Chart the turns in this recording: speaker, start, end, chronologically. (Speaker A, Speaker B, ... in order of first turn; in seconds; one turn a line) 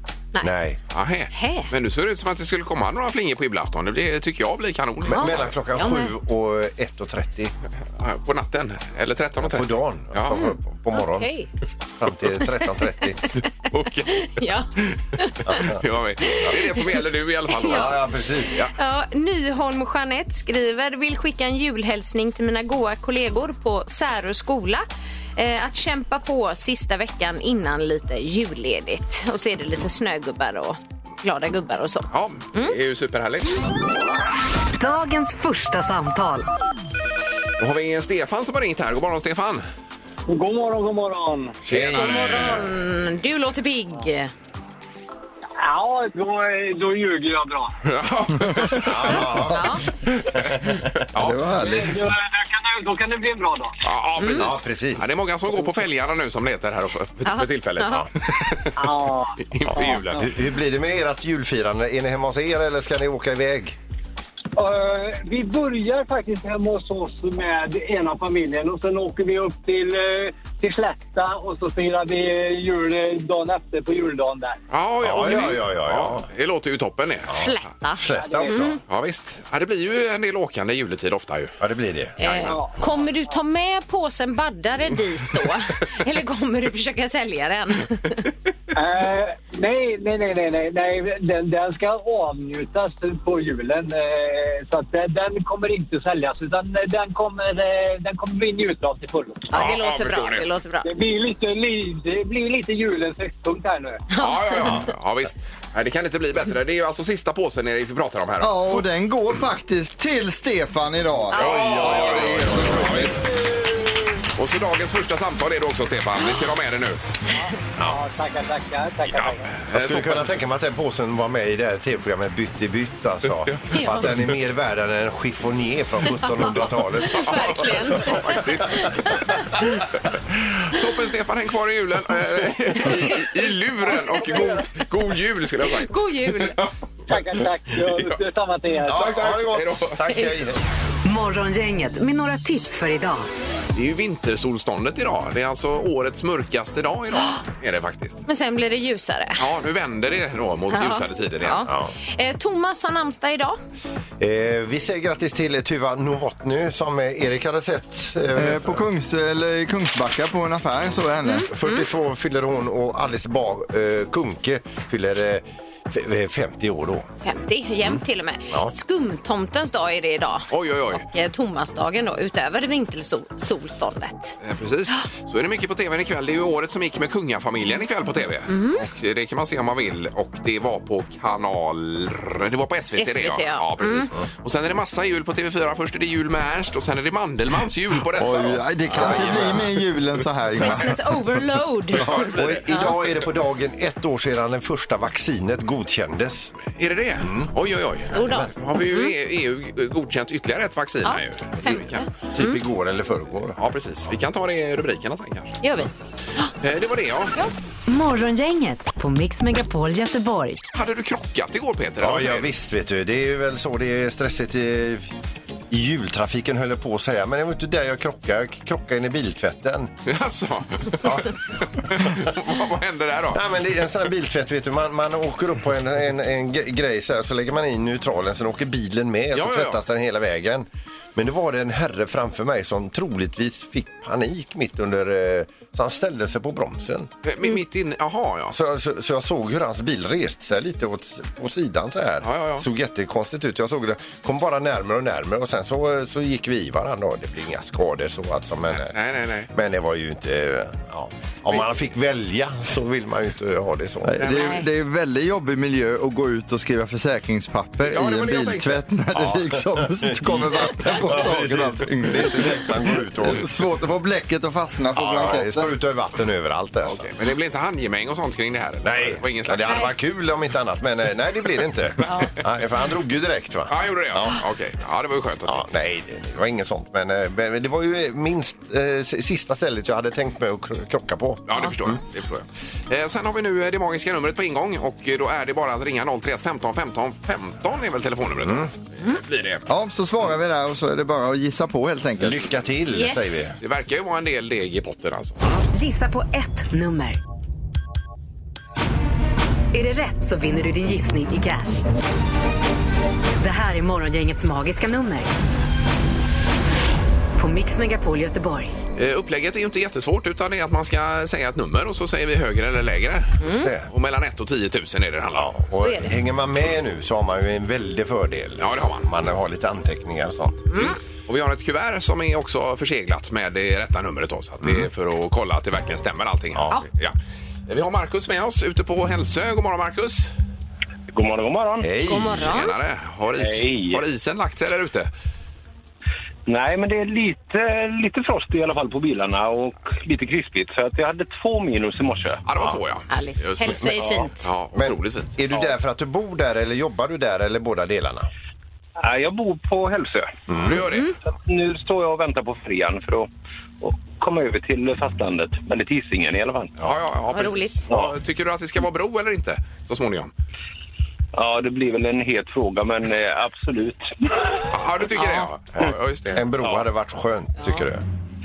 Speaker A: 0.4-0.8
Speaker B: 0.9-5.5
Speaker C: 1.3-1.7
Speaker A: 5.0-7.5
Speaker C: 5.1-6.1
Speaker B: 8.0-10.5
Speaker A: 9.4-11.3
Speaker C: 10.9-11.5
Speaker A: 12.0-13.2
Speaker B: 13.7-15.0
Speaker C: 14.1-15.5
Speaker A: 15.4-15.8
Speaker B: 15.6-18.7
Speaker C: 16.2-16.8
Speaker C: 17.5-17.9
Speaker A: 17.7-18.6
Speaker C: 18.7-24.9
Speaker C: 25.4-32.8
Speaker B: 32.1-33.7
Speaker D: 34.8-36.5
Speaker B: 37.6-39.6
Speaker E: 40.3-41.6
Speaker A: 41.6-42.6
Speaker B: 41.7-42.6
Speaker C: 41.9-44.3
Speaker E: 45.6-47.7
Speaker B: 47.9-49.4
Speaker A: 48.7-49.7
Speaker C: 49.4-49.8
Speaker B: 50.4-51.5
Speaker F: 51.1-52.1
Speaker E: 51.6-53.8
Speaker B: 53.8-60.3
Speaker C: 54.2-54.5
Speaker A: 54.3-55.1
Speaker C: 57.2-58.1
Speaker E: 58.8-60.2
Speaker A: 59.7-63.8
Speaker E: 64.6-74.6
Speaker B: 74.7-77.3
Speaker A: 75.0-76.3
Speaker A: 77.3-78.8
Speaker C: 77.3-78.8
Speaker E: 78.2-78.7
Speaker B: 78.9-81.6
Speaker A: 81.6-82.2
Speaker C: 82.2-88.2
Speaker E: 82.5-82.8
Speaker E: 88.8-99.5
Speaker C: 99.5-100.9
Speaker B: 99.5-100.5
Speaker E: 100.8-104.0
Speaker C: 104.1-104.9
Speaker B: 104.2-108.8
Speaker F: 108.4-113.0
Speaker B: 111.3-113.5
Speaker A: 111.3-113.4
Speaker C: 111.5-111.8
Speaker B: 114.4-117.0
Speaker E: 117.5-119.7
Speaker B: 119.1-120.3
Speaker A: 119.7-127.7
Speaker B: 123.5-124.1
Speaker C: 123.7-124.1
Speaker C: 127.0-129.7
Speaker B: 127.1-129.4
Speaker B: 130.7-136.7
Speaker E: 134.1-134.6
Speaker C: 135.8-136.6
Speaker E: 137.1-139.1
Speaker A: 138.8-140.6
Speaker B: 138.9-140.0
Speaker D: 141.1-143.3
Speaker B: 143.7-148.2
Speaker C: 148.3-149.4
Speaker B: 149.4-151.6
Speaker C: 150.7-153.6
Speaker A: 151.7-151.9
Speaker A: 154.2-158.8
Speaker F: 158.3-161.5
Speaker C: 161.2-161.9
Speaker A: 161.5-167.1
Speaker C: 167.2-174.4
Speaker A: 167.8-168.7
Speaker B: 170.5-171.1
Speaker B: 174.4-189.7
Speaker C: 178.5-178.8
Speaker C: 183.0-184.1
Speaker F: 188.1-191.1
Speaker A: 188.9-189.6
Speaker C: 190.6-192.9
Speaker B: 192.0-193.1
Speaker A: 192.2-196.6
Speaker B: 196.7-202.1
Speaker A: 197.2-197.5
Speaker A: 198.1-198.5
Speaker C: 198.1-199.2
Speaker C: 201.0-202.6
Speaker A: 201.7-203.6
Speaker B: 203.6-205.7
Speaker C: 205.6-206.5
Speaker B: 206.6-207.4
Speaker D: 207.9-210.6
Speaker B: 210.7-212.5
Speaker A: 212.0-215.1
Speaker A: 215.7-219.9
Speaker B: 220.1-221.3
Speaker A: 221.0-221.3
Speaker B: 221.8-223.4
Speaker A: 223.3-237.1
Speaker B: 229.3-229.8
Speaker B: 237.2-238.6
Speaker A: 238.5-249.0
Speaker B: 242.2-242.7
Speaker B: 248.7-249.5
Speaker A: 249.5-254.2
Speaker F: 254.0-265.7
Speaker B: 254.2-254.6
Speaker C: 254.3-254.7
Speaker B: 257.9-258.8
Speaker A: 259.1-263.5
Speaker A: 264.9-267.1
Speaker B: 265.1-265.4
Speaker B: 266.8-269.9
Speaker A: 268.9-274.4
Speaker C: 272.1-272.3
Speaker B: 273.7-275.6
Speaker A: 275.5-282.0
Speaker B: 281.5-289.7
Speaker A: 288.4-288.7
Speaker F: 289.7-292.5
Speaker A: 292.2-293.6
Speaker C: 292.9-293.4
Speaker B: 293.6-295.5
Speaker D: 295.7-297.2
Speaker D: 299.7-301.9
Speaker D: 303.4-305.3
Speaker D: 307.4-308.7
Speaker B: 309.0-315.5
Speaker C: 313.4-313.7
Speaker A: 313.4-313.9
Speaker A: 315.3-320.9
Speaker C: 315.8-316.1
Speaker B: 318.6-319.1
Speaker C: 320.7-321.0
Speaker B: 321.3-327.1
Speaker A: 324.6-324.9
Speaker B: 327.7-330.3
Speaker G: 331.1-331.9
Speaker A: 331.8-332.6
Speaker C: 332.1-332.8
Speaker B: 332.3-335.1
Speaker G: 333.3-334.0
Speaker G: 336.5-342.4
Speaker B: 342.5-345.4
Speaker C: 343.1-344.5
Speaker A: 344.8-348.3
Speaker G: 349.0-350.7
Speaker A: 350.5-350.8
Speaker B: 350.6-351.1
Speaker C: 350.9-351.1
Speaker G: 351.3-353.3
Speaker G: 353.8-356.8
Speaker B: 356.8-360.3
Speaker C: 357.3-357.8
Speaker G: 361.3-364.1
Speaker B: 364.7-366.4
Speaker C: 365.2-365.5
Speaker A: 365.8-368.1
Speaker C: 367.6-367.9